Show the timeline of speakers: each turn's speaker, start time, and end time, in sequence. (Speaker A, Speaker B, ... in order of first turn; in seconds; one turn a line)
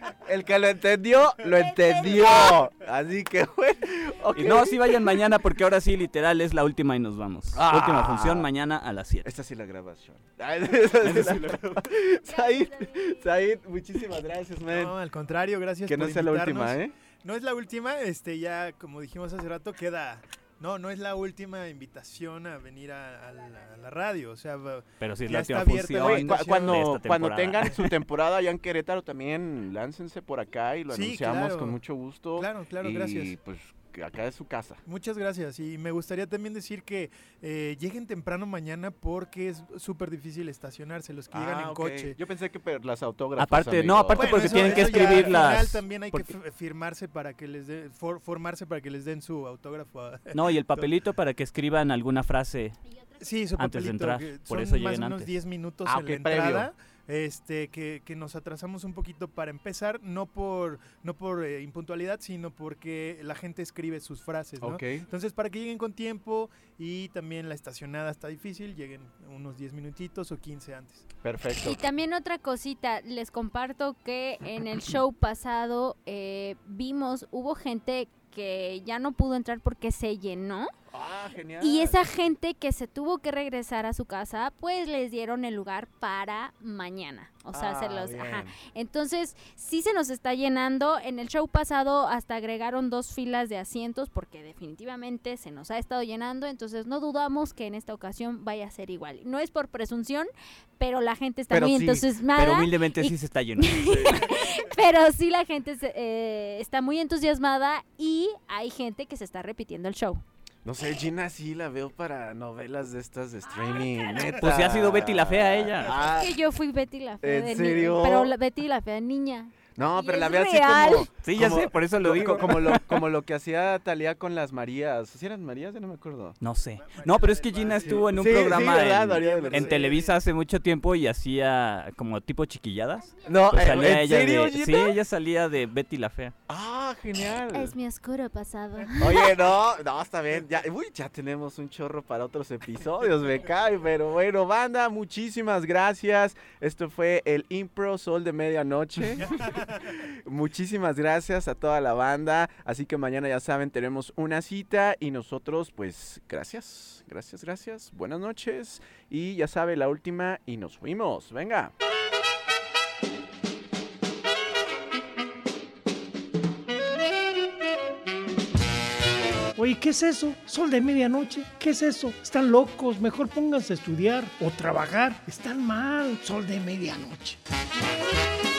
Speaker A: 0.2-5.2
Speaker B: 1.6-2.6
Speaker C: 4.3-9.3
Speaker A: 7.5-8.5
Speaker A: 9.2-14.9
Speaker C: 11.0-11.7
Speaker B: 12.2-13.3
Speaker D: 14.7-26.9
Speaker A: 15.9-16.9
Speaker C: 25.0-27.9
Speaker A: 26.0-34.8
Speaker D: 30.9-31.8
Speaker D: 32.4-33.4
Speaker D: 34.8-42.2
Speaker A: 41.3-45.5
Speaker C: 43.4-46.3
Speaker D: 44.1-50.9
Speaker C: 50.3-52.8
Speaker D: 53.2-71.0
Speaker C: 53.5-55.3
Speaker A: 55.9-56.7
Speaker A: 64.6-65.0
Speaker A: 71.2-71.8
Speaker B: 71.6-80.7
Speaker A: 80.9-82.0
Speaker B: 81.6-110.2
Speaker A: 87.5-88.5
Speaker A: 101.5-102.0
Speaker C: 102.3-103.9
Speaker A: 103.8-104.4
Speaker A: 110.6-116.3
Speaker B: 113.7-114.3
Speaker C: 114.4-115.9
Speaker B: 116.0-121.1
Speaker A: 117.2-118.3
Speaker A: 119.8-126.4
Speaker C: 121.1-123.0
Speaker C: 126.4-136.3
Speaker D: 126.8-130.1
Speaker A: 127.7-130.1
Speaker A: 133.2-134.9
Speaker A: 136.5-137.7
Speaker B: 137.5-139.3
Speaker A: 139.0-161.7
Speaker E: 169.6-177.4